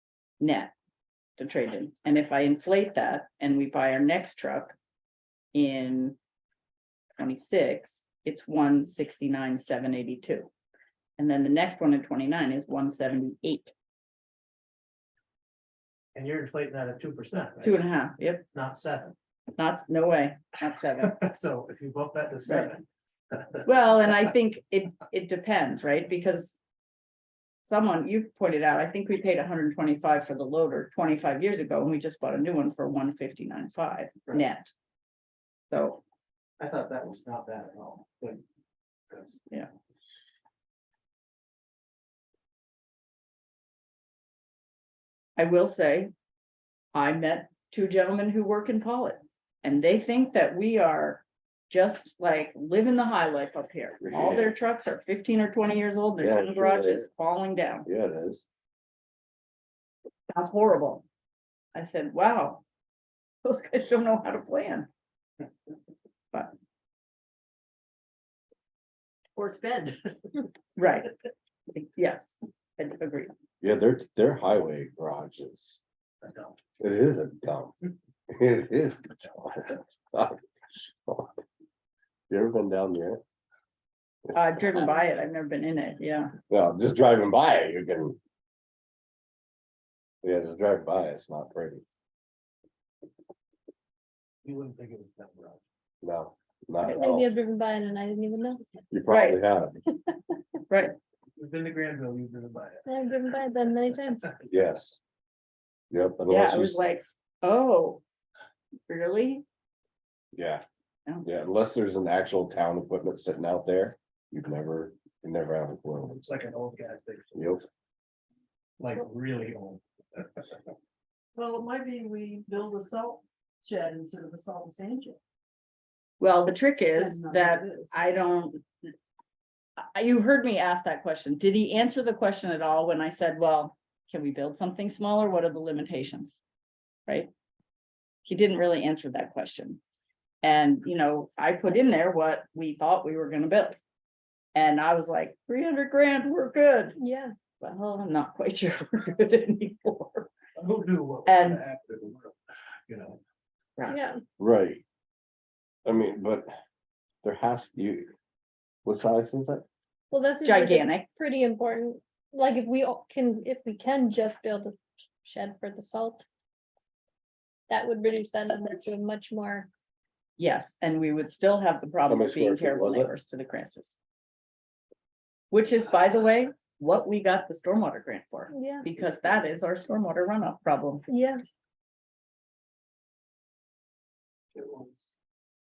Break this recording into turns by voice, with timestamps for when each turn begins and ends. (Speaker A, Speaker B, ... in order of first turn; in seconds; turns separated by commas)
Speaker A: 0.4-0.7, Speaker A: 1.4-4.7, Speaker A: 5.5-6.2, Speaker A: 7.2-10.5, Speaker A: 11.2-13.7, Speaker B: 16.1-17.8, Speaker A: 17.6-18.4, Speaker B: 18.5-19.1, Speaker A: 19.6-21.2, Speaker B: 21.0-23.7, Speaker A: 23.6-26.6, Speaker A: 27.7-34.7, Speaker A: 35.7-36.0, Speaker B: 36.6-38.4, Speaker B: 39.1-39.4, Speaker A: 45.4-46.1, Speaker A: 46.9-57.9, Speaker C: 54.0-54.5, Speaker C: 56.2-57.1, Speaker C: 57.9-58.5, Speaker A: 60.3-61.0, Speaker A: 61.7-62.6, Speaker A: 63.4-64.9, Speaker D: 69.4-70.0, Speaker A: 70.8-71.1, Speaker A: 71.7-73.3, Speaker C: 73.6-75.8, Speaker B: 76.2-76.5, Speaker C: 76.8-77.7, Speaker C: 78.3-81.3, Speaker C: 82.3-83.2, Speaker C: 84.3-84.9, Speaker A: 84.3-86.3, Speaker C: 86.5-88.2, Speaker C: 90.2-91.8, Speaker B: 94.4-95.6, Speaker C: 96.0-97.3, Speaker A: 96.8-97.1, Speaker E: 96.9-98.6, Speaker C: 98.9-99.8, Speaker A: 99.1-99.4, Speaker A: 100.7-101.0, Speaker B: 101.4-102.9, Speaker E: 102.9-104.4, Speaker C: 104.5-105.0, Speaker C: 105.9-106.8, Speaker A: 106.3-108.0, Speaker A: 108.9-109.4, Speaker C: 110.3-110.6, Speaker C: 111.2-116.2, Speaker B: 116.0-117.6, Speaker C: 117.3-117.6, Speaker B: 118.8-120.6, Speaker D: 121.4-125.2, Speaker A: 126.2-128.7, Speaker D: 127.0-128.0, Speaker A: 129.8-136.4, Speaker A: 138.2-139.8, Speaker A: 140.4-143.8, Speaker A: 144.6-147.0, Speaker E: 147.0-147.3, Speaker A: 147.6-150.3, Speaker B: 150.6-152.4, Speaker A: 151.3-151.6, Speaker B: 152.9-153.2, Speaker E: 153.9-154.2, Speaker C: 154.4-154.8, Speaker C: 155.8-156.5, Speaker C: 157.2-158.1, Speaker C: 158.8-159.7, Speaker E: 160.1-166.3, Speaker A: 160.4-161.1, Speaker E: 167.7-169.7, Speaker A: 170.4-174.0, Speaker C: 172.1-173.1, Speaker A: 175.5-181.1, Speaker E: 178.5-178.9, Speaker E: 181.1-181.4, Speaker B: 184.5-185.1